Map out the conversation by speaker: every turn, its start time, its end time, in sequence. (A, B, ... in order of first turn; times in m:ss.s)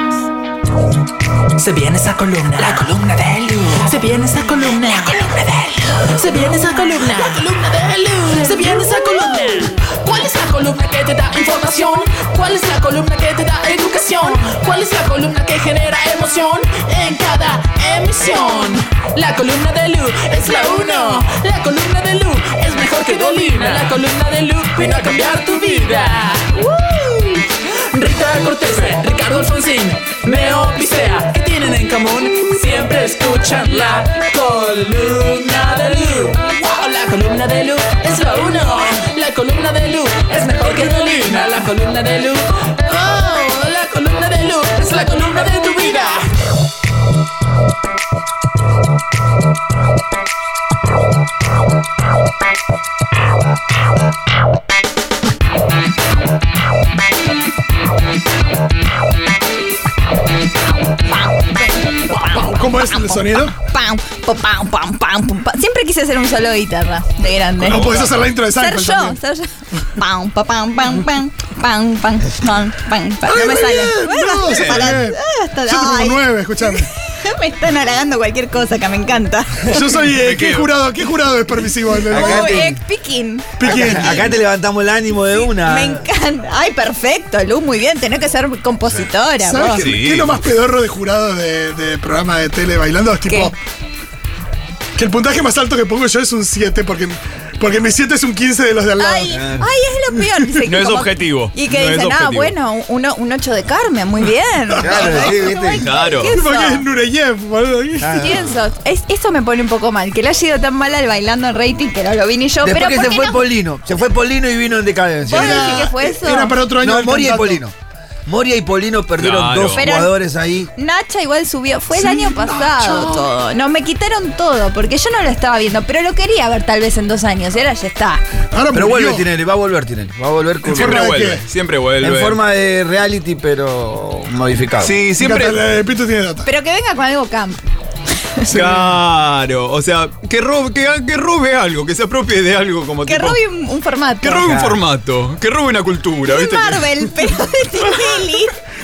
0:01.6-0:46.4 A
1:01.3-1:07.9 B
1:02.2-1:03.6 C
1:07.6-1:09.2 C
1:07.6-1:08.1 D
1:08.6-1:20.1 B
1:13.2-1:16.9 C
1:14.5-1:15.0 D
1:19.6-1:22.7 C
1:20.2-1:20.7 D
1:22.1-1:24.0 B
1:22.1-1:22.8 E
1:23.6-1:24.4 C
1:23.6-1:26.0 E
1:25.5-1:29.9 B
1:29.4-1:33.6 C
1:29.8-1:30.4 D
1:33.3-1:33.5 B
1:35.0-1:39.4 C
1:39.0-1:46.9 B
1:39.3-1:39.7 E
1:40.6-1:42.5 D
1:44.7-1:45.5 C
1:44.8-1:45.9 E
1:45.8-1:46.4 D
1:46.3-1:48.4 C
1:48.0-1:48.5 E
1:48.1-1:53.4 B
1:52.6-1:55.9 E
1:55.2-1:56.6 B
1:55.3-1:57.6 C
1:56.8-1:57.7 E
1:58.3-2:00.7 E
1:59.2-1:59.9 D
1:59.8-2:00.2 B
2:00.8-2:08.2 B
2:01.9-2:03.3 C
2:08.5-2:09.2 C
2:08.7-2:11.0 E
2:10.6-2:12.4 D
2:10.7-2:11.4 C
2:12.0-2:15.0 E
2:14.8-2:15.6 D
2:15.2-2:16.5 C
2:16.4-2:17.6 B
2:18.5-2:19.0 C
2:18.5-2:23.4 D
2:23.0-2:24.5 B
2:24.2-2:26.9 D
2:24.4-2:24.8 E
2:26.3-2:28.6 B
2:27.8-2:28.2 D